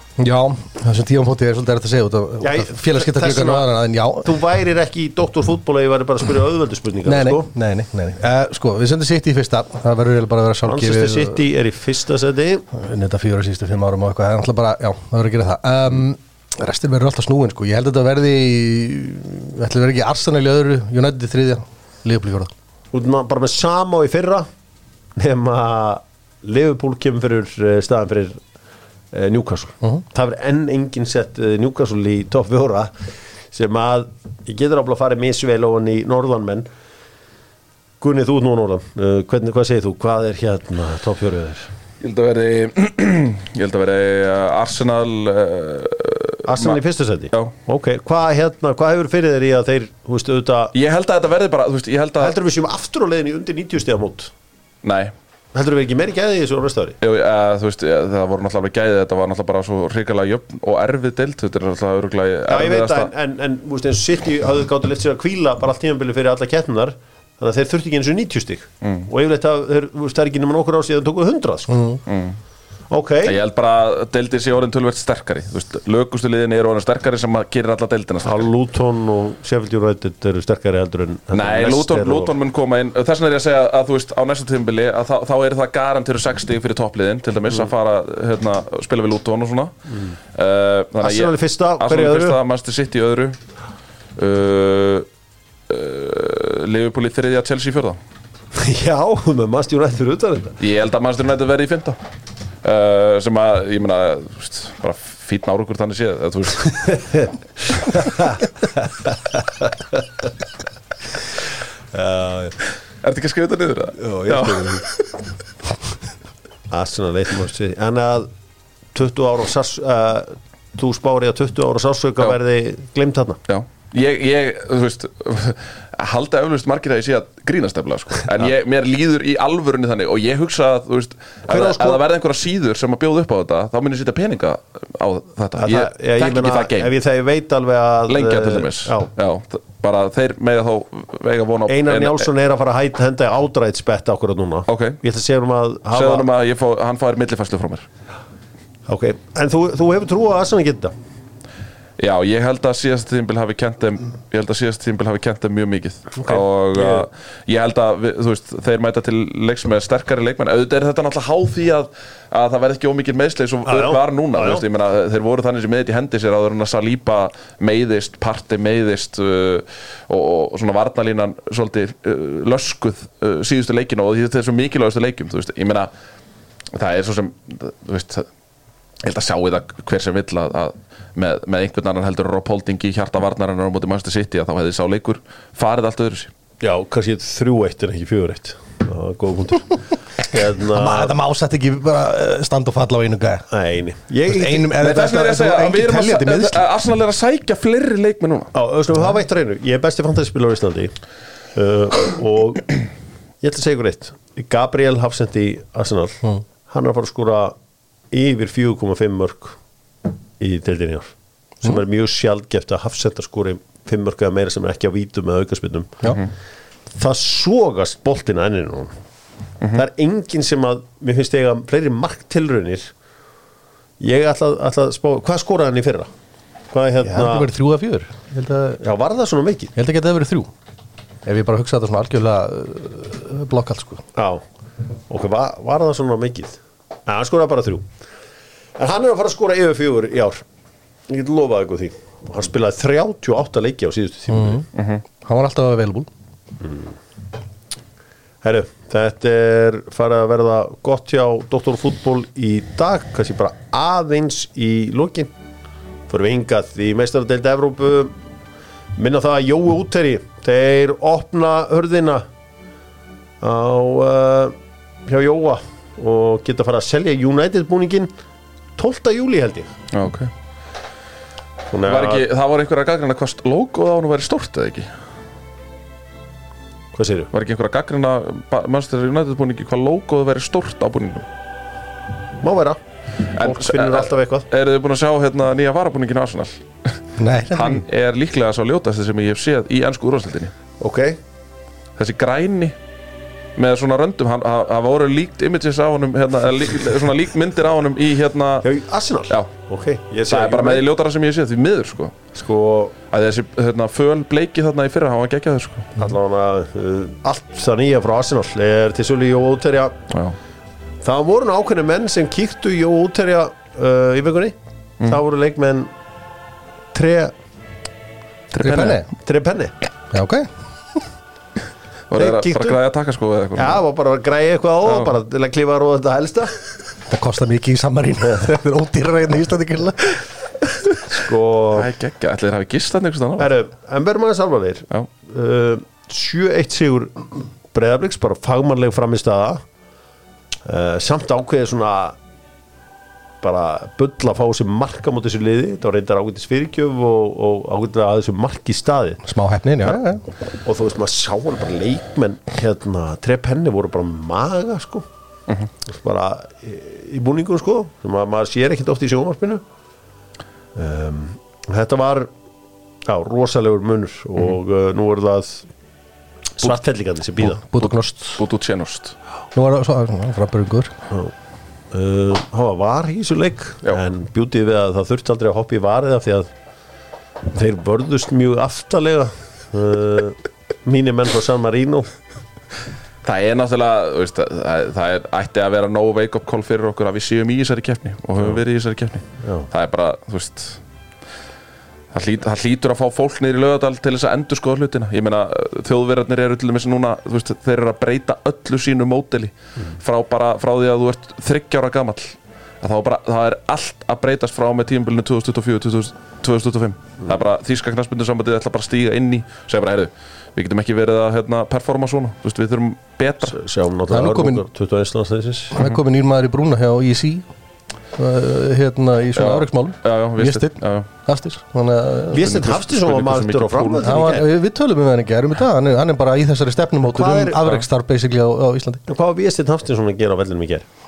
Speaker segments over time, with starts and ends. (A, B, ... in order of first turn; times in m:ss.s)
0:00.2-0:04.3 A
0:02.4-0:07.5 B
0:07.0-0:11.4 A
0:10.6-0:12.7 B
0:12.7-0:22.5 A
0:22.9-0:24.5 B
0:25.2-0:28.4 B
0:29.1-0:32.9 B
0:33.5-0:36.7 B
0:38.0-0:41.7 B
0:42.0-0:46.8 C
0:46.4-0:50.7 B
0:50.7-0:52.4 C
0:52.2-0:54.3 B
0:54.8-0:55.1 C
0:55.5-0:57.0 B
0:57.0-1:03.1 C
1:02.5-1:11.9 B
1:08.8-1:09.1 C
1:11.7-1:12.0 A
1:12.0-1:12.4 C
1:12.9-1:13.4 B
1:13.2-1:18.5 C
1:18.2-1:22.3 B
1:21.3-1:29.7 C
1:29.9-1:30.2 B
1:30.3-1:33.4 C
1:31.0-1:32.4 B
1:34.2-1:35.1 C
1:35.7-1:38.0 C
1:38.5-1:40.6 B
1:40.6-1:42.0 C
1:42.6-1:47.0 C
1:46.8-1:50.3 B
1:51.9-1:52.6 B
1:53.0-1:55.2 C
1:54.0-1:54.8 B
1:56.7-1:58.3 B
1:58.9-2:03.4 B
2:03.5-2:16.9 C
2:11.5-2:12.0 B
2:15.6-2:19.1 B
2:18.1-2:22.3 C
2:21.7-2:26.3 B
2:24.7-2:25.0 C
2:25.9-2:27.9 C
2:28.9-2:30.9 B
2:32.0-2:55.9 C
2:36.1-2:37.1 B
2:43.6-2:44.6 B
2:56.7-2:58.3 C
2:59.0-3:06.3 C
3:06.6-3:11.1 B
3:10.7-3:13.4 A
3:13.5-3:14.8 B
3:14.3-3:16.6 A
3:14.7-3:18.5 C
3:18.5-3:20.9 B
3:21.6-3:22.7 B
3:23.4-3:27.6 B
3:28.1-3:29.6 B
3:30.4-3:36.2 B
3:37.0-3:38.9 B
3:39.7-3:42.9 B
3:44.0-3:46.1 B
3:46.7-3:47.5 B
3:47.0-3:48.8 A
3:48.8-3:49.7 B
3:49.8-3:50.5 A
3:51.2-3:54.0 A
3:54.1-3:54.4 B
3:55.1-3:57.9 B
3:58.8-4:00.4 B
4:01.1-4:04.6 B
4:04.3-4:04.6 A
4:04.7-4:05.0 C
4:05.2-4:06.1 A
4:06.6-4:07.0 B
4:08.4-4:15.3 B
4:16.1-4:18.1 B
4:19.0-4:22.3 B
4:23.4-4:28.1 B
4:28.8-4:29.7 B
4:29.9-4:30.3 C
4:31.7-4:32.2 B
4:31.8-4:34.9 C
4:36.9-4:37.3 B
4:37.3-4:41.2 C
4:42.4-4:42.8 B
4:43.4-4:44.5 B
4:43.4-4:50.5 C
4:47.2-4:47.8 A
4:50.8-4:51.2 B
4:52.0-4:52.7 C
4:53.6-4:58.6 C
4:58.6-5:00.8 B
5:00.3-5:02.3 C
5:02.3-5:02.9 B
5:03.1-5:06.0 C
5:06.0-5:10.0 B
5:10.1-5:10.4 C
5:11.0-5:15.9 B
5:16.9-5:17.3 B
5:18.5-5:19.0 C
5:18.6-5:19.1 A
5:19.2-5:19.7 B
5:20.1-5:21.0 A
5:22.1-5:23.8 C
5:22.1-5:22.8 B
5:23.6-5:26.5 B
5:24.9-5:25.1 C
5:27.1-5:30.3 A
5:31.0-5:31.9 B
5:31.7-5:33.5 C
5:33.4-5:39.6 B
5:40.6-5:42.2 B
5:43.4-5:49.2 B
5:49.2-5:50.2 A
5:50.6-5:55.1 B
5:55.8-5:59.6 B
6:00.7-6:02.3 B
6:03.1-6:05.7 B
6:06.6-6:07.6 B
6:07.5-6:08.4 A
6:07.8-6:09.1 C
6:09.5-6:10.9 A
6:11.9-6:16.5 B
6:17.5-6:22.1 B
6:23.2-6:30.8 C
6:29.4-6:29.7 B
6:32.1-6:53.6 C
6:53.4-6:55.8 B
6:54.1-6:54.6 A
6:55.7-6:57.5 A
6:58.1-7:02.5 A
6:59.4-7:01.1 C
7:02.3-7:04.5 B
7:02.3-7:04.4 C
7:04.0-7:09.0 A
7:07.1-7:07.6 B
7:09.1-7:10.8 B